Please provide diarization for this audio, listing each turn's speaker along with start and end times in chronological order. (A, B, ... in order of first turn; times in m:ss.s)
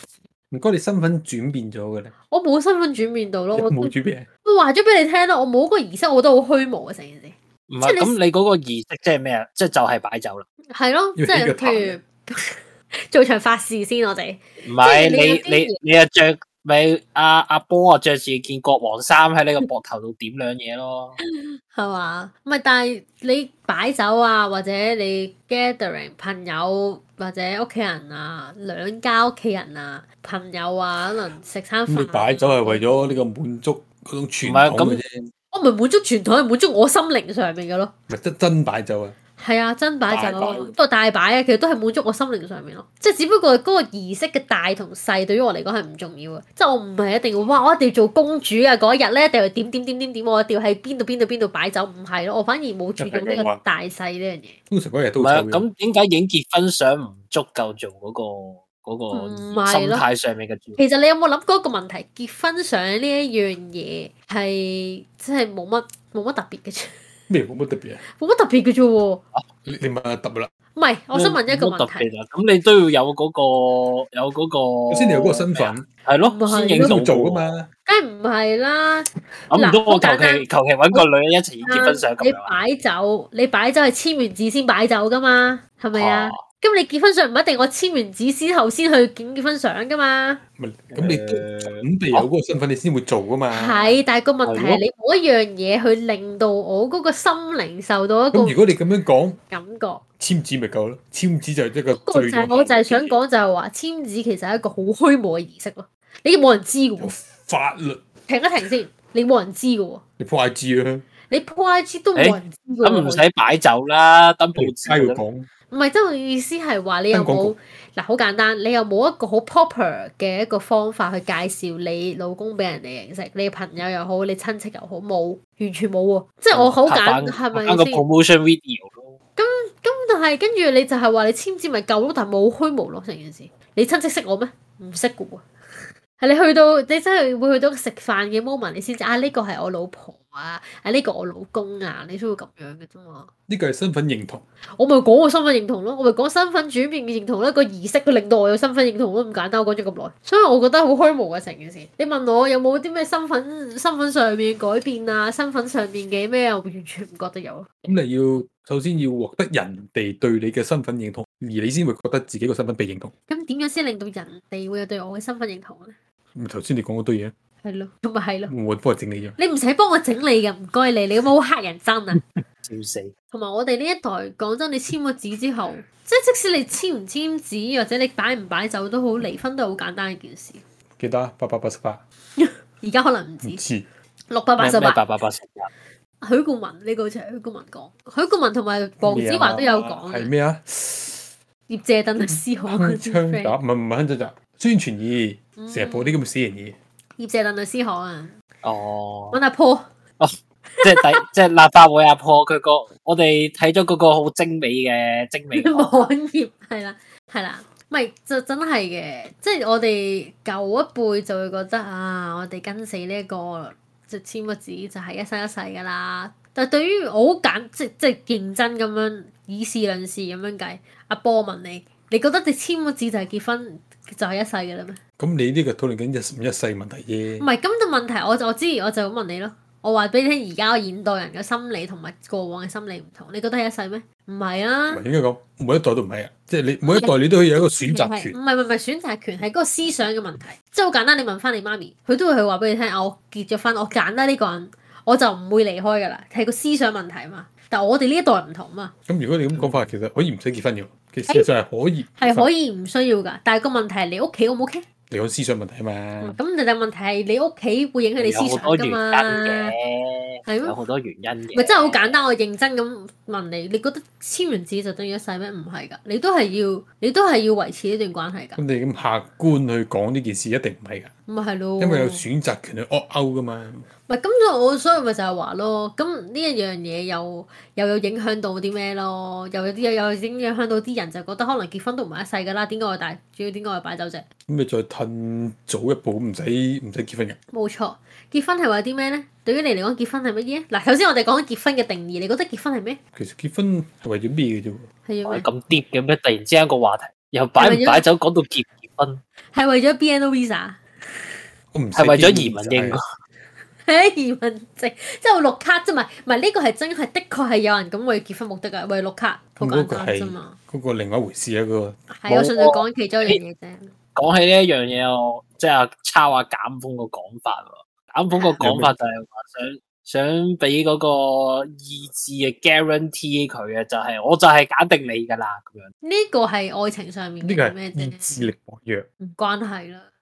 0:00.5-0:02.1 A
0:02.3-0:08.1 B
0:03.5-0:04.3 A
0:07.7-0:10.4 C
0:10.7-0:15.8 B
0:11.2-0:12.0 A
0:14.6-0:21.2 C
0:21.2-0:33.2 B
0:31.9-0:35.3 A
0:34.4-0:35.0 C
0:35.5-0:37.9 B
0:38.1-0:39.2 A
0:39.4-0:54.6 B
0:40.1-0:40.7 A
0:53.0-0:53.6 A
0:54.7-0:55.6 A
0:55.2-1:00.8 C
0:59.1-1:00.0 B
1:00.8-1:07.0 B
1:07.3-1:08.0 A
1:08.0-1:09.2 B
1:09.6-1:10.5 A
1:10.7-1:12.1 B
1:11.1-1:17.6 C
1:14.9-1:15.8 A
1:16.2-1:17.0 B
1:16.8-1:17.7 A
1:17.8-1:21.0 B
1:19.5-1:22.5 C
1:21.6-1:30.4 B
1:25.9-1:26.4 C
1:30.6-1:33.9 A
1:30.9-1:32.3 C
1:33.5-1:38.6 B
1:34.4-1:34.8 C
1:38.3-1:39.4 A
1:39.5-1:40.0 B
1:40.2-1:42.7 A
1:42.0-1:47.1 B
1:42.7-1:43.0 C
1:47.0-1:48.0 A
1:48.3-1:50.0 B
1:50.2-1:51.0 A
1:51.3-1:53.2 B
1:52.2-1:55.2 C
1:54.6-1:55.5 A
1:55.7-2:08.0 B
1:57.1-1:57.5 A
2:06.5-2:09.2 C
2:09.4-2:23.3 B
2:23.5-2:24.4 A
2:24.8-2:37.7 B
2:37.8-2:43.1 A
2:43.3-2:45.9 B
2:46.3-2:47.3 A
2:47.6-2:48.5 B
2:48.5-2:49.4 A
2:49.4-2:52.2 B
2:52.6-2:53.1 C
2:53.3-3:00.6 B
3:01.0-3:02.0 A
3:02.4-3:03.6 B
3:03.4-3:03.8 A
3:04.3-3:05.0 B
3:04.6-3:05.7 C
3:06.2-3:10.3 B
3:09.0-3:11.3 A
3:11.7-3:13.5 B
3:12.3-3:16.8 A
3:15.6-3:16.2 B
3:17.2-3:18.3 B
3:18.6-3:19.4 C
3:19.3-3:19.9 B
3:20.7-3:21.2 B
3:20.8-3:26.1 C
3:25.5-3:45.0 B
3:45.2-3:47.4 A
3:47.4-3:55.0 B
3:54.9-3:58.4 A
3:56.8-4:08.9 B
4:09.1-4:12.5 A
4:09.5-4:09.8 C
4:12.2-4:14.8 B
4:15.1-4:16.4 A
4:16.2-4:19.7 B
4:18.2-4:22.2 C
4:20.4-4:20.8 B
4:21.5-4:28.6 B
4:28.6-4:31.1 A
4:31.3-4:32.2 B
4:31.8-4:33.9 A
4:34.1-4:44.2 B
4:44.5-4:47.4 A
4:47.5-4:53.0 B
4:53.2-4:54.9 A
4:55.0-4:55.5 B
4:55.2-4:59.2 C
4:57.6-4:58.0 B
4:59.5-5:01.4 B
5:01.7-5:03.0 A
5:02.0-5:03.0 C
5:03.8-5:10.6 B
5:09.6-5:12.6 A
5:12.1-5:13.9 B
5:12.6-5:13.4 C
5:14.1-5:25.9 C
5:18.3-5:18.6 B
5:18.6-5:18.9 A
5:26.0-5:28.5 B
5:27.4-5:29.1 A
5:29.2-5:30.1 B